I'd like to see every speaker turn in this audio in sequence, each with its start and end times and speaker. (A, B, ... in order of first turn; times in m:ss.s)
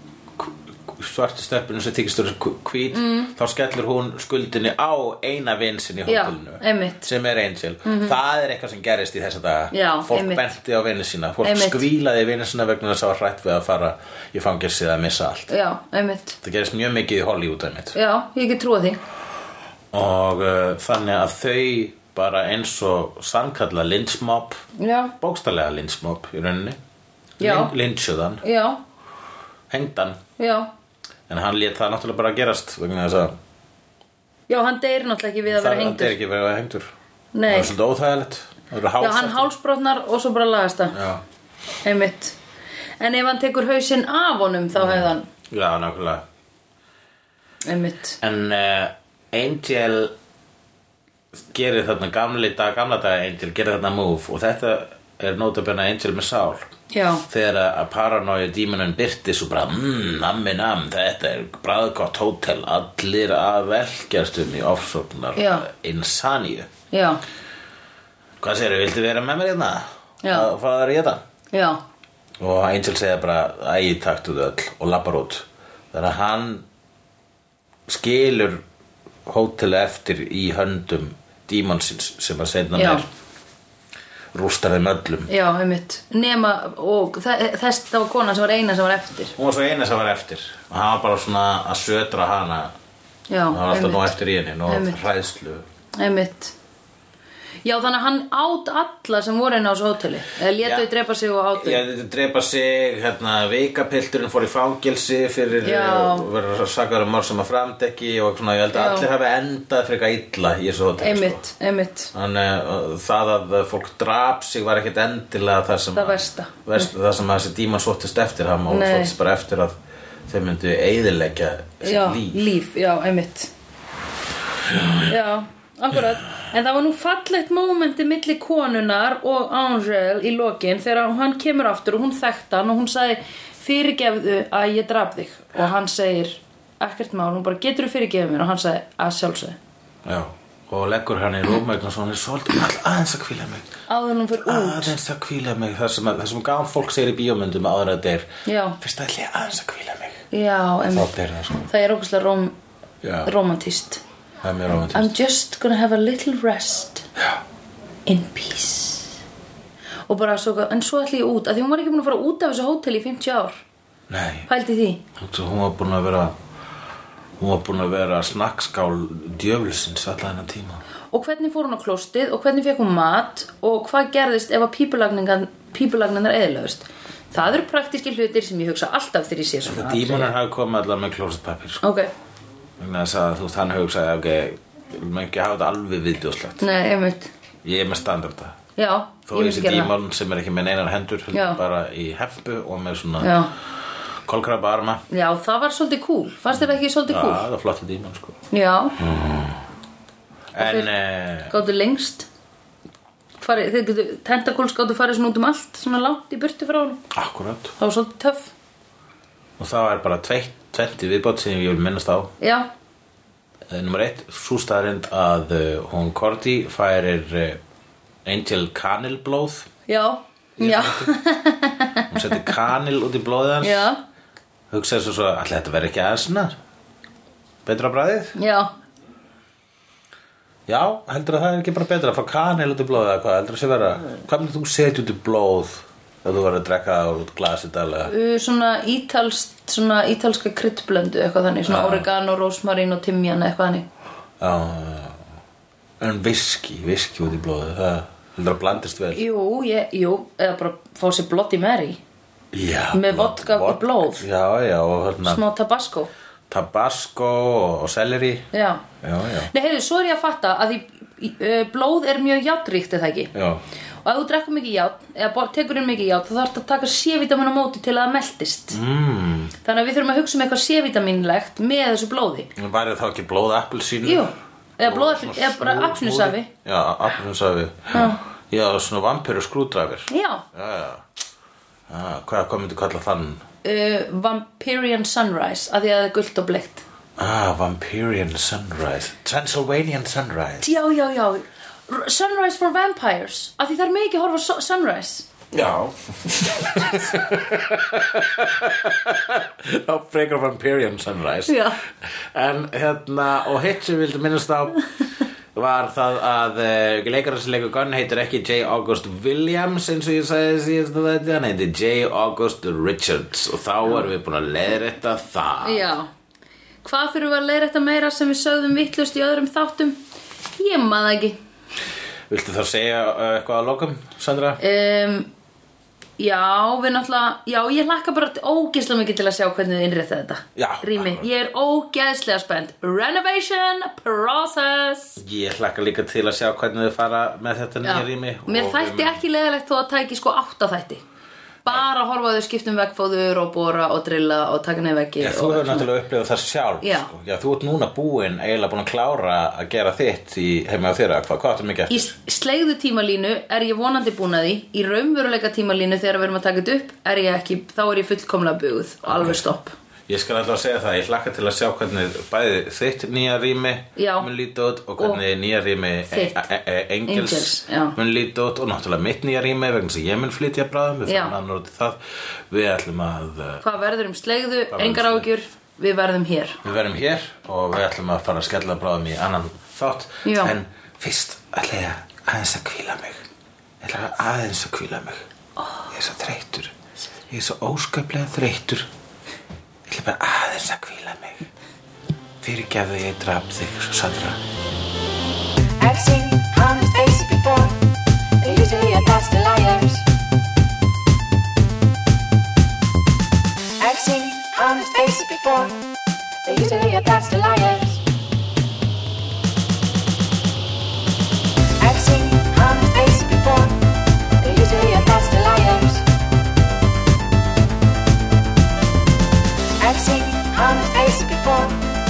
0:00.4-0:15.5 A
0:02.9-0:03.3 B
0:06.1-0:07.1 B
0:07.8-0:08.2 B
0:09.7-0:10.5 B
0:11.4-0:11.8 B
0:15.5-0:16.4 B
0:16.4-0:18.0 A
0:17.9-0:19.0 B
0:19.9-0:24.6 A
0:24.8-0:25.1 B
0:25.2-0:26.8 A
0:27.4-0:27.7 B
0:27.4-0:28.4 A
0:28.4-0:28.8 B
0:29.7-0:30.2 A
0:30.4-0:30.7 B
0:31.3-0:33.3 A
0:34.5-0:36.2 B
0:35.5-0:36.9 A
0:37.3-0:37.7 B
0:37.5-0:39.5 A
0:39.0-0:41.0 B
0:40.9-0:41.2 A
0:41.8-0:42.4 B
0:43.0-0:45.2 B
0:44.7-0:46.2 A
0:47.6-0:48.2 B
0:48.2-0:50.1 A
0:51.5-0:56.6 A
0:56.9-0:57.2 B
0:57.3-1:06.7 A
1:05.4-1:05.7 B
1:06.9-1:07.2 B
1:08.4-1:11.2 A
1:10.2-1:10.5 B
1:11.5-1:11.8 B
1:12.4-1:16.6 A
1:17.9-1:18.6 A
1:19.3-1:23.0 A
1:22.8-1:23.0 B
1:24.3-1:25.3 A
1:25.3-1:29.3 B
1:29.4-1:32.7 A
1:33.3-1:35.0 B
1:33.5-1:35.6 A
1:36.0-1:36.5 B
1:37.6-1:41.8 B
1:40.6-1:40.9 A
1:41.6-1:51.4 A
1:45.6-1:46.3 B
1:48.7-1:49.1 B
1:51.0-1:52.1 B
1:52.1-1:59.8 A
1:55.9-1:56.9 B
1:58.7-1:59.1 B
2:00.3-2:02.4 A
2:01.8-2:03.5 B
2:04.7-2:05.0 A
2:05.0-2:19.6 B
2:20.0-2:23.6 A
2:23.9-2:24.9 B
2:24.4-2:28.3 A
2:28.4-2:28.8 B
2:28.8-2:30.2 A
2:30.3-2:31.1 B
2:30.9-2:31.7 A
2:31.7-2:32.5 B
2:33.0-2:33.3 A
2:33.2-2:34.0 B
2:34.4-2:35.1 A
2:34.9-2:37.0 B
2:38.0-2:39.1 B
2:40.1-2:43.6 B
2:44.1-2:44.5 A
2:44.5-2:45.0 B
2:45.2-2:46.3 A
2:47.4-2:50.8 A
2:51.1-3:00.3 B
2:59.6-3:01.8 A
3:01.8-3:02.1 B
3:02.8-3:06.6 A
3:06.6-3:07.3 B
3:07.6-3:08.6 A
3:08.8-3:09.9 B
3:09.3-3:13.3 A
3:11.3-3:11.6 B
3:13.2-3:13.5 B
3:14.2-3:15.0 A
3:15.1-3:17.4 B
3:17.1-3:18.4 A
3:18.5-3:19.0 B
3:19.0-3:19.6 A
3:20.5-3:21.5 A
3:20.6-3:20.9 B
3:21.5-3:22.3 B
3:23.4-3:27.0 B
3:27.1-3:27.7 A
3:27.8-3:28.5 B
3:29.6-3:32.3 A
3:32.4-3:32.7 B
3:33.7-3:37.6 A
3:38.2-3:39.7 A
3:39.9-3:42.2 B
3:40.6-3:41.1 A
3:42.1-3:43.9 A
3:43.6-3:44.0 B
3:44.7-3:46.5 A
3:47.6-3:48.3 A
3:48.4-3:48.7 B
3:50.7-3:58.1 A
3:58.1-4:03.9 B
4:01.6-4:02.1 A
4:04.4-4:05.2 A
4:06.0-4:09.2 A
4:09.1-4:12.0 B
4:12.5-4:15.4 A
4:12.9-4:14.2 B
4:15.2-4:16.1 B
4:16.5-4:18.5 A
4:18.5-4:18.8 B
4:19.0-4:19.5 A
4:19.5-4:23.3 B
4:23.3-4:23.6 A
4:24.0-4:28.8 B
4:28.7-4:29.5 A
4:29.6-4:32.5 B
4:32.6-4:34.3 A
4:34.0-4:36.5 B
4:34.8-4:41.0 A
4:37.9-4:38.2 B
4:40.1-4:40.4 B
4:41.9-4:43.4 A
4:43.6-4:46.8 B
4:47.2-4:50.7 A
4:50.6-4:55.3 B
4:55.5-5:04.8 A
5:01.5-5:01.8 B
5:05.5-5:15.9 A
5:15.6-5:16.1 B
5:16.8-5:20.0 B
5:20.6-5:21.4 B
5:22.3-5:24.6 A
5:24.6-5:25.3 B
5:26.2-5:35.2 B
5:30.6-5:31.2 A
5:35.2-5:39.2 A
5:37.8-5:41.0 B
5:41.6-5:45.9 B
5:45.2-5:52.1 A
5:46.8-5:47.1 B
5:51.9-5:59.7 B
5:59.0-5:59.4 A
6:00.1-6:13.6 A
6:04.0-6:04.3 B
6:06.1-6:06.4 B
6:07.1-6:08.0 B
6:11.0-6:11.4 B
6:13.6-6:16.6 B
6:14.7-6:15.3 A
6:16.6-6:23.2 A
6:20.2-6:20.5 B
6:23.8-6:25.2 A
6:25.9-6:26.7 A
6:27.3-6:28.9 A
6:29.9-6:31.5 A
6:32.4-6:34.4 A
6:35.8-6:37.8 C
6:38.4-6:40.0 C
6:43.8-6:45.8 C
6:46.4-6:48.0 C
6:51.8-6:53.8 C
6:54.4-6:56.0 C
6:59.8-7:01.8 C